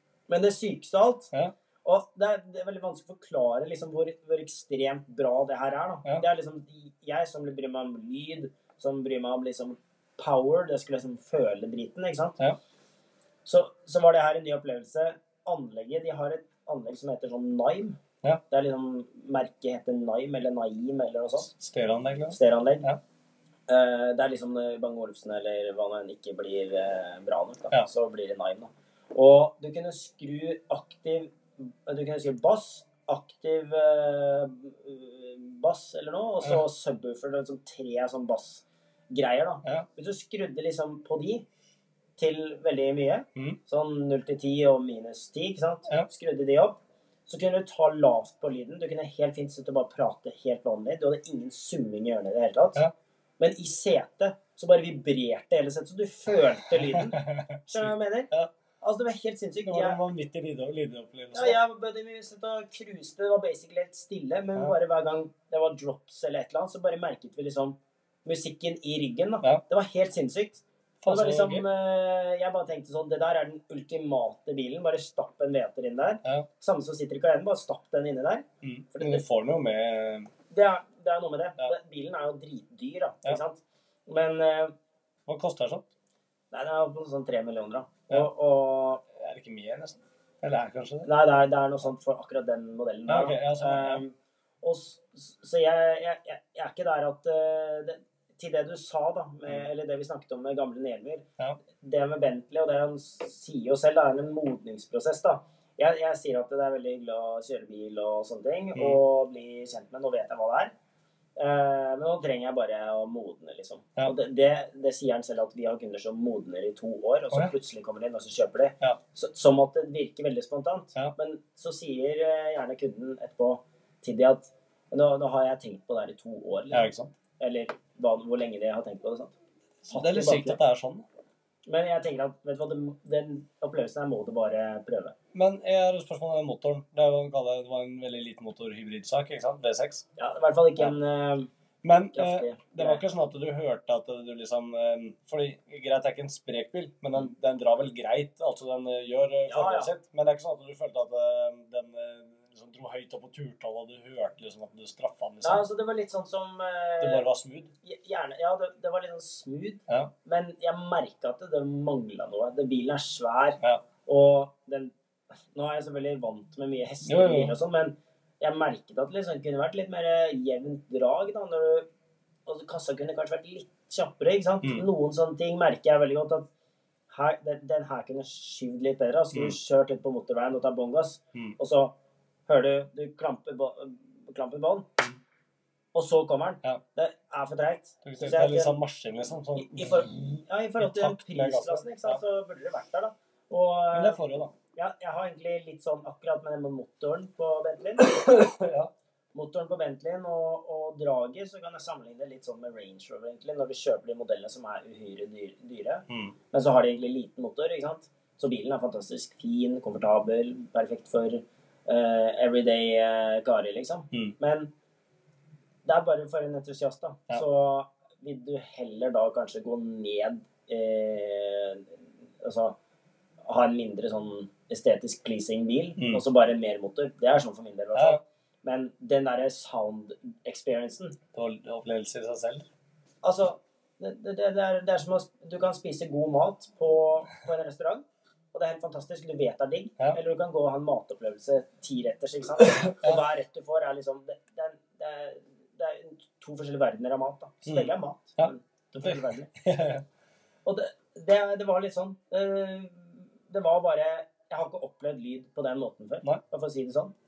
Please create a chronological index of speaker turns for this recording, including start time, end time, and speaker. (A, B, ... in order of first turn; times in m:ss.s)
0:00.3-0:01.3 A
0:01.8-0:12.4 A
0:13.4-0:18.0 A
0:18.5-0:21.5 A
0:21.4-0:23.0 B
0:22.3-0:22.9 A
0:23.7-0:41.4 A
0:42.2-0:52.8 A
0:53.4-1:00.0 A
0:56.7-0:58.5 B
0:59.7-1:01.6 B
1:01.3-1:19.2 A
1:11.0-1:11.6 B
1:18.6-1:20.3 B
1:20.5-1:24.7 A
1:25.3-1:25.9 B
1:26.5-1:29.0 A
1:29.1-1:31.1 B
1:31.0-1:41.3 A
1:33.1-1:34.0 B
1:41.8-1:50.7 A
1:48.8-1:49.0 B
1:51.4-2:09.4 A
2:06.7-2:07.1 B
2:09.8-2:11.0 B
2:09.9-2:10.6 A
2:11.7-2:15.2 A
2:15.3-2:20.0 B
2:20.2-2:21.5 A
2:21.8-2:35.6 B
2:22.1-2:23.0 A
2:29.5-2:29.9 A
2:35.4-2:37.3 A
2:37.0-2:37.7 B
2:37.8-2:44.9 A
2:45.5-2:51.9 A
2:47.0-2:47.6 B
2:52.5-2:56.5 A
2:57.1-3:01.9 A
2:59.3-2:59.6 B
3:02.5-3:04.9 A
3:05.9-3:08.8 A
3:08.0-3:12.2 B
3:09.6-3:14.2 A
3:13.9-3:14.5 B
3:14.7-3:18.2 A
3:18.0-3:18.9 B
3:19.3-3:34.7 A
3:26.1-3:26.4 B
3:35.8-3:42.8 A
3:43.4-3:51.2 A
3:46.0-3:46.2 B
3:48.0-3:48.2 B
3:51.3-3:52.7 B
3:53.2-4:09.5 A
4:02.6-4:03.2 B
4:07.6-4:10.0 B
4:10.7-4:17.1 A